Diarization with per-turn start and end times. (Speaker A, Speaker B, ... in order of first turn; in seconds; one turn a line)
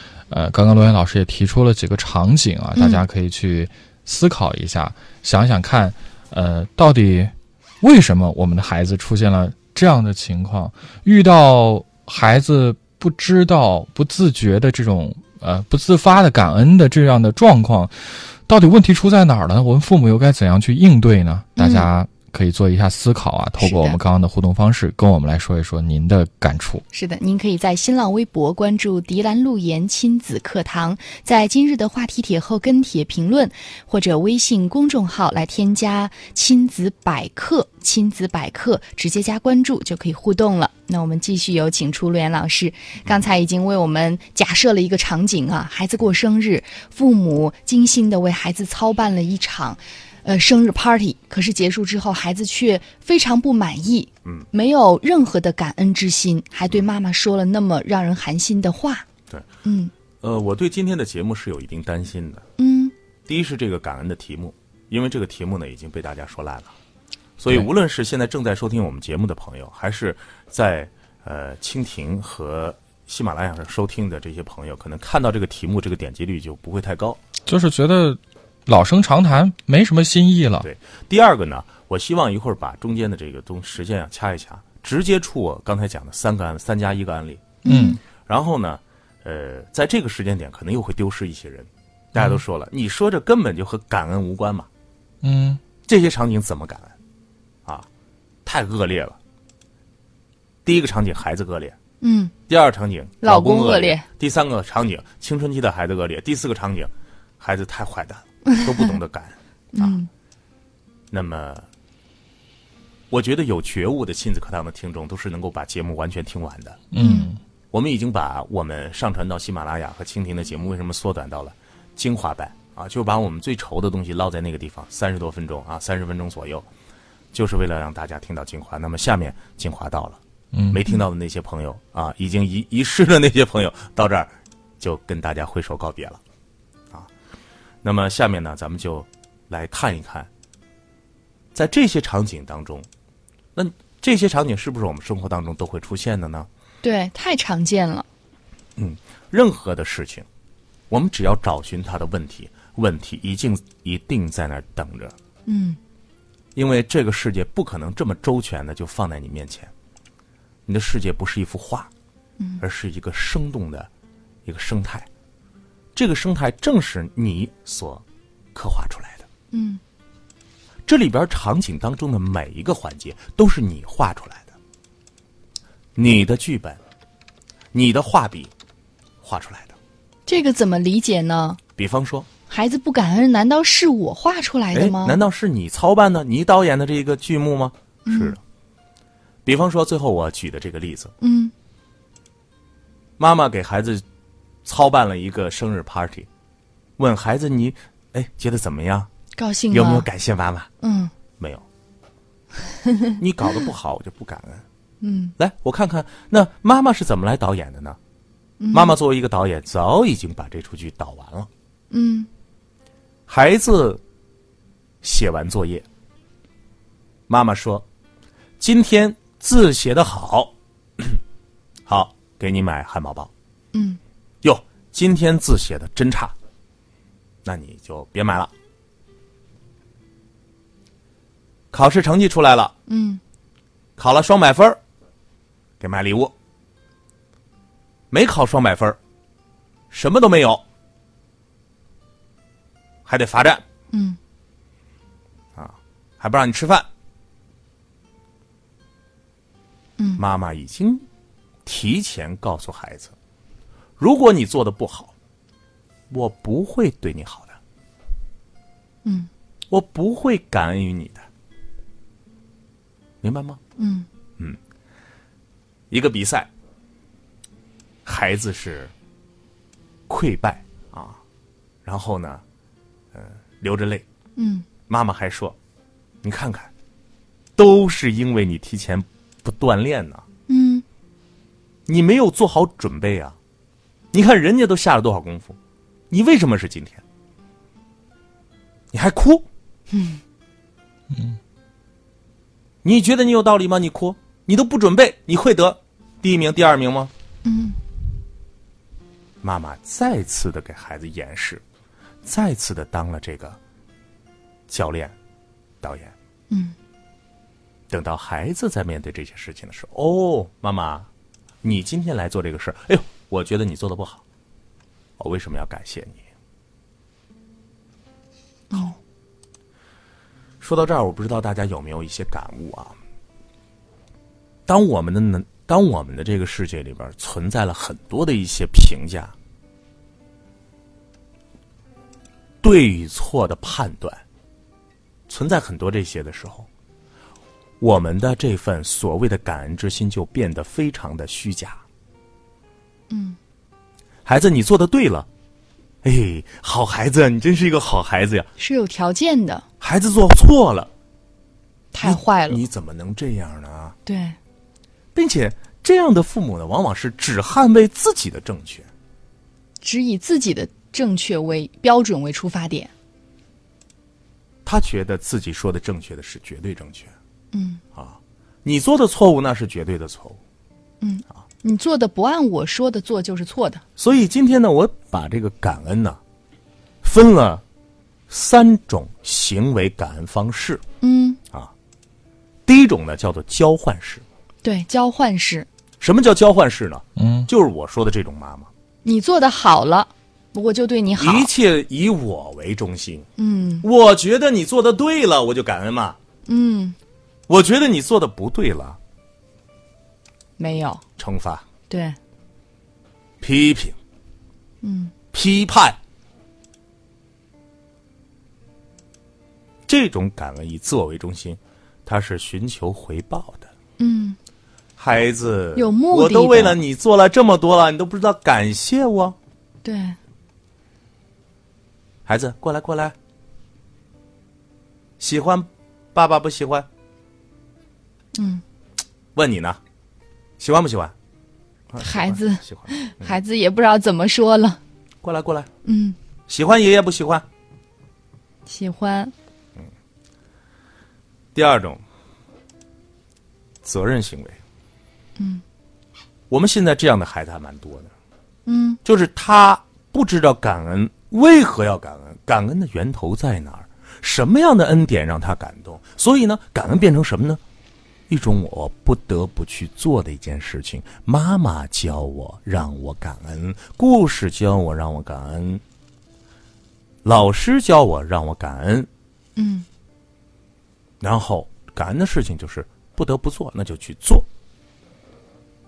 Speaker A: 0.3-26.8
Speaker B: 2.8-3.0
Speaker B: 21.6-21.9
Speaker B: 23.6-24.0
Speaker B: 26.9-59.1
Speaker B: 59.6-59.9
Speaker C: 60.2-62.5
Speaker B: 62.6-62.9
Speaker C: 63.2-66.7
Speaker C: 67.4-77.2
Speaker A: 77.5-80.7
Speaker C: 80.6-87.6
Speaker B: 87.6-88.0
Speaker A: 87.6-88.0
Speaker C: 88.2-94.7
Speaker A: 95.2-95.6
Speaker C: 95.8-97.0
Speaker C: 98.4-99.2
Speaker C: 100.6-101.8
Speaker B: 102.0-102.3
Speaker C: 102.5-110.0
Speaker B: 103.2-104.0
Speaker B: 108.5-108.9
Speaker B: 109.7-110.1
Speaker C: 111.1-111.7
Speaker C: 113.1-116.8
Speaker A: 116.9-117.4
Speaker B: 117.0-117.3
Speaker C: 117.7-126.7
Speaker C: 127.3-136.2
Speaker A: 130.5-130.8
Speaker C: 137.8-140.3
Speaker C: 141.5-142.9
Speaker C: 143.5-146.5
Speaker B: 146.8-148.1
Speaker C: 148.8-150.3
Speaker C: 150.9-155.2
Speaker B: 155.5-155.8
Speaker C: 156.5-159.7
Speaker C: 160.7-161.9
Speaker C: 162.6-163.9
Speaker C: 164.4-165.1
Speaker C: 165.9-169.3
Speaker B: 169.5-169.8
Speaker C: 170.8-174.5
Speaker C: 175.9-176.8
Speaker C: 177.7-178.5
Speaker C: 179.2-179.8
Speaker B: 180.3-181.6
Speaker C: 181.8-182.3
Speaker B: 182.5-185.2
Speaker C: 184.7-188.4
Speaker B: 188.1-188.4
Speaker C: 189.4-191.1
Speaker B: 191.2-191.5
Speaker C: 193.2-194.0
Speaker C: 194.6-196.3
Speaker C: 197.0-199.1
Speaker B: 199.3-200.1
Speaker C: 199.7-200.7
Speaker B: 200.8-201.1
Speaker C: 201.4-201.6
Speaker B: 202.8-203.1
Speaker C: 203.2-204.6
Speaker B: 205.0-205.3
Speaker C: 205.4-208.0
Speaker B: 208.6-209.0
Speaker C: 208.7-211.5
Speaker B: 211.9-212.3
Speaker C: 213.3-214.0
Speaker C: 215.0-215.8
Speaker C: 217.3-217.8
Speaker C: 218.6-221.2
Speaker C: 221.8-223.3
Speaker B: 223.7-224.0
Speaker C: 224.4-226.3
Speaker C: 227.4-228.5
Speaker C: 231.7-232.7
Speaker B: 232.9-233.2
Speaker C: 234.0-234.8
Speaker C: 235.8-236.3
Speaker C: 238.1-239.0
Speaker C: 239.9-240.6
Speaker C: 243.0-243.6
Speaker B: 243.9-244.2
Speaker C: 245.6-246.9
Speaker C: 250.2-251.0
Speaker C: 251.6-253.1
Speaker C: 254.0-255.1
Speaker C: 256.1-257.6
Speaker C: 259.7-261.3
Speaker C: 263.2-263.6
Speaker B: 263.8-264.1
Speaker C: 265.9-266.5
Speaker C: 268.0-268.9
Speaker C: 270.1-271.2
Speaker C: 271.8-272.4
Speaker C: 273.1-274.1
Speaker B: 274.4-274.6
Speaker C: 274.9-275.6
Speaker C: 276.2-276.7
Speaker C: 277.6-280.2
Speaker B: 280.5-280.8
Speaker C: 281.9-283.4
Speaker C: 284.1-285.6
Speaker C: 286.1-287.0
Speaker C: 288.9-289.5
Speaker B: 289.9-290.2
Speaker C: 292.8-297.1
Speaker B: 297.4-297.8
Speaker C: 299.4-301.6
Speaker C: 302.2-303.6
Speaker C: 304.7-305.1
Speaker C: 305.8-306.1
Speaker B: 306.5-306.8
Speaker C: 307.9-311.1
Speaker C: 311.6-314.2
Speaker C: 315.2-316.2
Speaker B: 318.7-318.9
Speaker C: 320.6-323.0
Speaker C: 324.7-329.3
Speaker C: 332.6-334.2
Speaker C: 335.3-336.7
Speaker C: 337.8-341.8
Speaker B: 343.1-343.4
Speaker C: 344.2-345.3
Speaker C: 346.0-348.5
Speaker B: 348.6-349.6
Speaker C: 349.8-350.9
Speaker B: 351.9-352.6
Speaker C: 352.0-353.9
Speaker B: 354.1-354.4
Speaker C: 355.1-358.9
Speaker B: 359.8-362.9
Speaker C: 364.6-367.1
Speaker B: 367.5-367.8
Speaker C: 367.9-370.4
Speaker B: 371.0-373.8
Speaker C: 374.0-376.2
Speaker C: 377.0-377.6
Speaker C: 378.3-380.8
Speaker B: 381.0-381.4
Speaker C: 382.6-384.2
Speaker B: 384.6-385.7
Speaker C: 386.0-388.7
Speaker A: 387.2-387.5
Speaker B: 389.0-391.5
Speaker C: 391.2-393.3
Speaker B: 393.4-393.9
Speaker C: 393.8-396.2
Speaker B: 396.4-396.9
Speaker C: 397.5-399.0
Speaker B: 400.6-401.0
Speaker C: 401.2-401.6
Speaker B: 401.9-402.2
Speaker C: 403.4-404.0
Speaker B: 404.8-405.1
Speaker C: 405.3-406.0
Speaker C: 409.9-413.7
Speaker B: 414.0-414.4
Speaker C: 415.0-419.4
Speaker B: 415.8-416.8
Speaker B: 419.8-420.2
Speaker C: 422.2-423.1
Speaker C: 425.2-426.9
Speaker B: 428.3-428.6
Speaker C: 429.3-429.8
Speaker C: 430.6-431.1
Speaker C: 431.9-433.4
Speaker B: 432.0-434.8
Speaker C: 435.2-435.7
Speaker B: 435.8-436.1
Speaker C: 436.5-437.4
Speaker B: 438.6-439.3
Speaker C: 441.5-442.0
Speaker C: 443.8-444.6
Speaker B: 445.4-445.6
Speaker C: 446.5-448.1
Speaker B: 448.6-449.0
Speaker C: 449.0-457.6
Speaker C: 458.3-465.8
Speaker C: 467.2-469.1
Speaker B: 469.6-469.9
Speaker C: 471.2-474.5